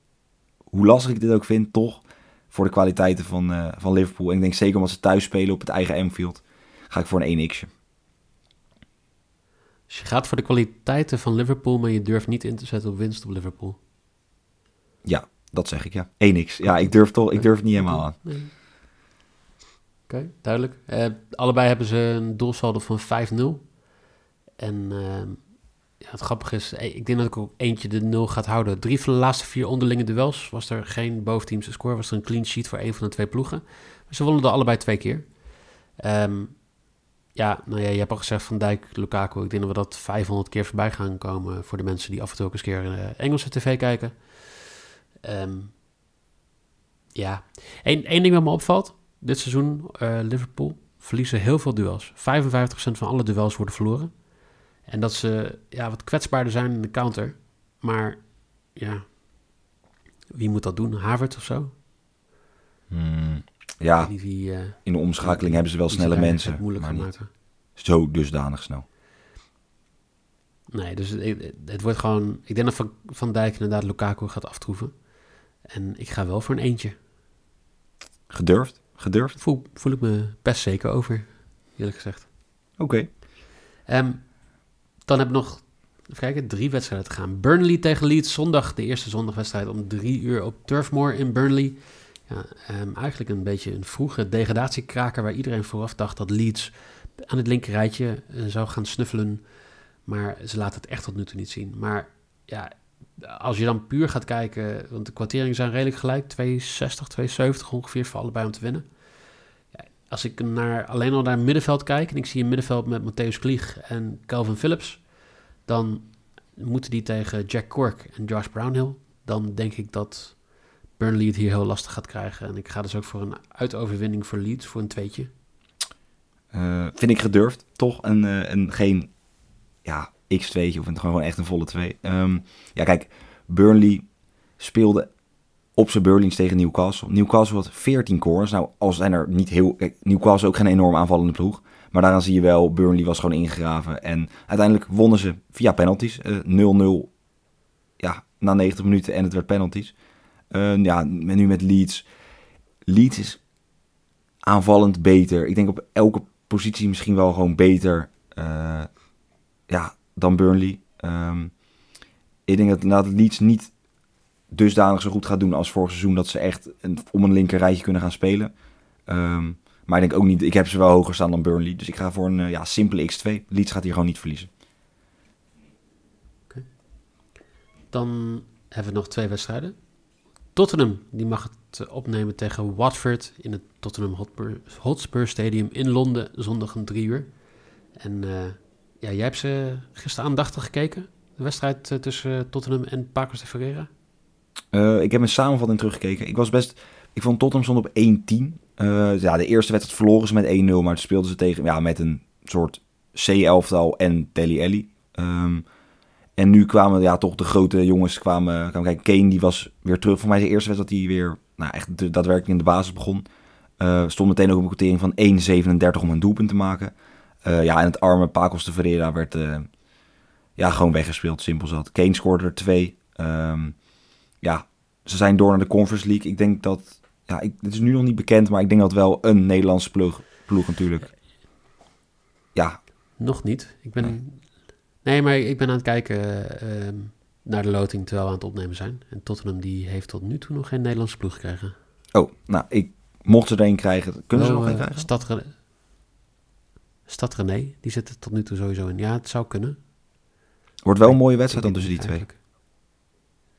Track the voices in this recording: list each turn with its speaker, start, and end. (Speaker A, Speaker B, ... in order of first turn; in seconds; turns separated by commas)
Speaker A: 0.7-7.7, Speaker B: 9.9-13.8, Speaker A: 15.1-18.2, Speaker B: 16.6-18.5, Speaker B: 20.1-23.7, Speaker B: 24.6-35.4, Speaker B: 36.0-36.7, Speaker B: 37.4-44.6, Speaker B: 45.2-45.7, Speaker B: 47.2-54.1, Speaker B: 54.9-59.1, Speaker B: 60.3-61.7, Speaker A: 62.9-64.1, Speaker B: 64.0-67.3, Speaker A: 64.7-67.1, Speaker A: 67.8-68.8, Speaker B: 70.7-74.9, Speaker B: 75.7-77.0, Speaker A: 78.3-79.4, Speaker B: 79.4-82.3, Speaker A: 82.8-83.1, Speaker B: 83.9-84.3, Speaker B: 85.0-99.4, Speaker B: 100.1-108.8, Speaker B: 110.1-115.1, Speaker B: 115.7-120.4, Speaker B: 121.0-125.3, Speaker A: 126.5-129.1, Speaker A: 129.8-134.1, Speaker A: 134.6-135.1, Speaker A: 135.8-147.1, Speaker A: 148.0-149.9, Speaker A: 150.5-152.1, Speaker A: 152.9-153.4, Speaker A: 154.5-158.9, Speaker A: 159.7-161.5, Speaker A: 162.5-163.7, Speaker A: 164.5-168.5, Speaker A: 169.1-174.5, Speaker B: 177.9-179.8, Speaker B: 180.6-187.3, Speaker B: 188.0-193.9, Speaker A: 194.7-205.6, Speaker A: 206.4-213.2, Speaker A: 213.8-216.9, Speaker A: 217.4-219.7, Speaker A: 220.6-223.8, Speaker A: 224.4-231.1, Speaker A: 232.6-232.8, Speaker B: 233.2-234.5, Speaker B: 235.0-241.8, Speaker A: 242.1-245.1, Speaker B: 244.3-245.5, Speaker B: 247.1-249.8, Speaker A: 250.8-252.3, Speaker B: 251.0-252.4